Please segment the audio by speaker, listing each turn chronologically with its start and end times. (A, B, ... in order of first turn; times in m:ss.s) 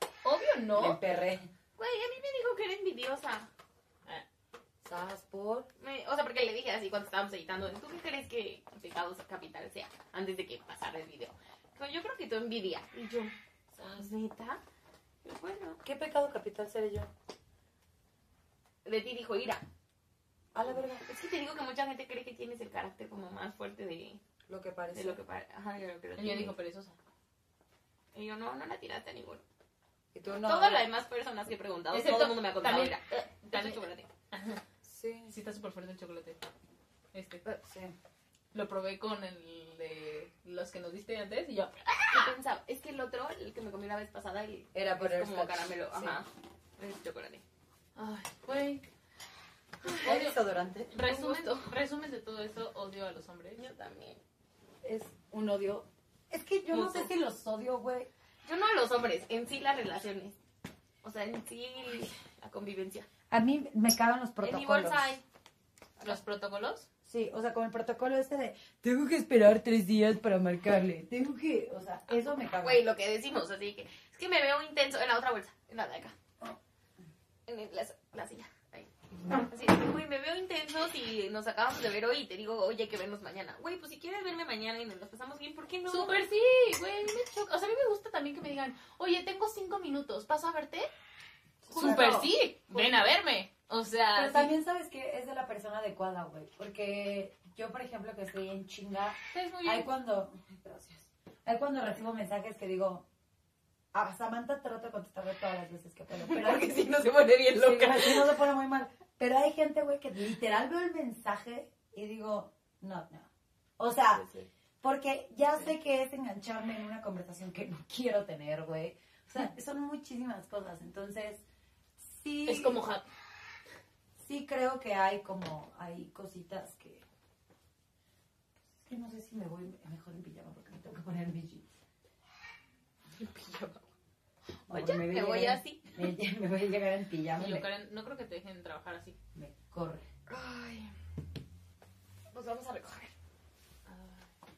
0:00.2-0:01.0 A
0:00.8-0:01.5 B
0:01.8-0:03.5 C
0:04.8-0:05.7 B
0:05.8-0:14.6 C
0:15.2-0:15.8 C
0:15.8-0:17.1 B
0:18.8-0:19.6 C
0:20.5-0:21.1 B
0:20.9-0:24.2 C
0:24.5-0:25.2 B
0:24.9-0:26.6 C
0:26.2-0:27.0 A
0:28.1-0:29.4 C
0:30.1-0:30.8 B
0:30.4-0:34.1 C
0:31.9-0:34.6 A
0:34.8-0:35.4 B
0:35.3-0:36.4 A
0:37.1-0:37.6 A
0:37.6-0:38.0 B
0:38.5-0:42.3 A
0:42.1-0:46.3 C
0:44.7-0:46.2 B
0:46.8-0:47.4 C
0:48.0-0:48.8 A
0:49.9-0:50.9 B
0:49.9-0:50.4 A
0:50.9-0:53.6 A
0:51.0-0:51.7 C
0:53.6-0:54.2 C
0:54.8-0:58.1 B
0:56.7-0:57.1 C
0:58.5-1:00.4 C
1:01.0-1:03.1 C
1:03.3-1:05.2 B
1:04.4-1:05.2 C
1:06.0-1:06.9 A
1:07.0-1:12.8 B
1:12.6-1:16.1 C
1:17.5-1:18.9 C
1:19.5-1:26.3 C
1:25.9-1:30.9 A
1:31.7-1:33.1 C
1:31.7-1:32.3 B
1:31.7-1:34.5 A
1:34.2-1:43.1 B
1:39.3-1:39.9 A
1:43.9-1:46.7 B
1:46.2-1:48.4 C
1:47.6-1:54.3 B
1:54.1-1:54.5 C
1:54.8-2:01.4 B
2:02.0-2:02.8 B
2:02.5-2:03.1 A
2:04.2-2:07.0 B
2:08.8-2:11.8 B
2:13.2-2:13.9 C
2:14.7-2:16.0 C
2:14.7-2:17.7 B
2:17.4-2:19.2 A
2:19.4-2:20.1 B
2:20.3-2:20.9 C
2:22.3-2:23.1 C
2:23.9-2:24.3 A